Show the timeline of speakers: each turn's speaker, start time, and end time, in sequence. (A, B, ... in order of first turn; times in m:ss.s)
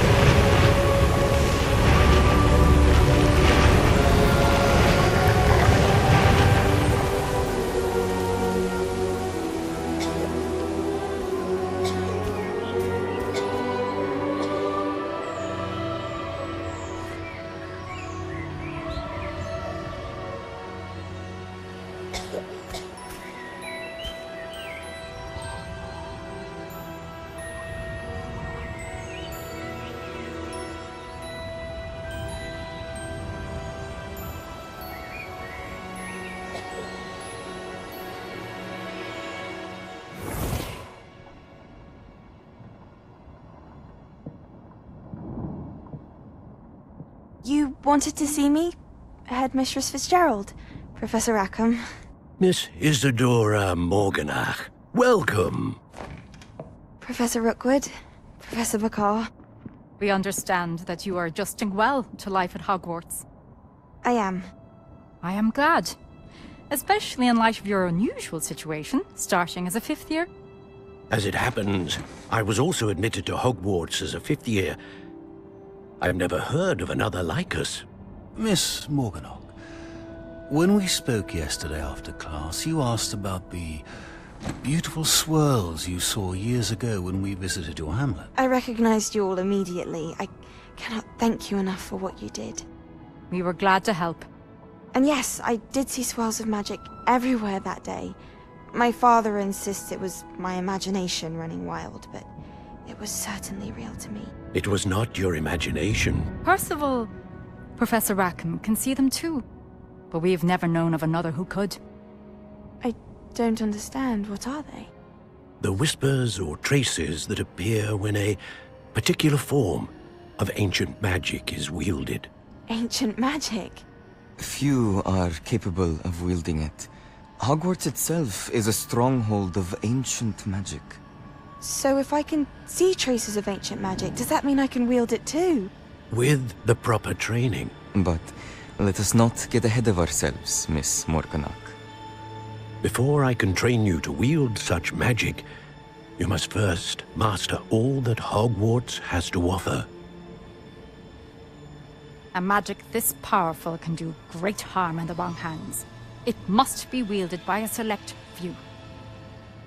0:47.4-0:48.8 A
0:49.3-0:51.8 A
0:52.4-0:55.8 B
0:57.0-0:59.3 A
1:00.0-1:03.2 C
1:04.0-1:04.5 A
1:05.2-1:05.9 C
1:06.7-1:10.3 C
1:11.1-1:14.8 B
1:16.0-1:17.8 B
1:18.4-1:19.5 D
1:20.5-1:23.8 D
1:24.6-1:28.3 D
1:28.4-1:32.6 A
1:33.3-1:34.2 C
1:34.9-1:38.2 A
1:38.7-1:42.3 A
1:42.8-1:44.3 A
1:44.5-1:46.3 B
1:46.4-1:47.1 C
1:47.8-1:49.4 C
1:50.1-1:51.8 C
1:52.8-1:54.9 A
1:55.6-1:58.4 B
1:58.9-2:02.3 B
2:02.7-2:03.8 A
2:04.4-2:11.0 E
2:11.6-2:15.7 A
2:16.1-2:17.8 B
2:17.9-2:21.8 E
2:22.8-2:25.4 B
2:26.2-2:29.9 B
2:32.3-2:38.6 C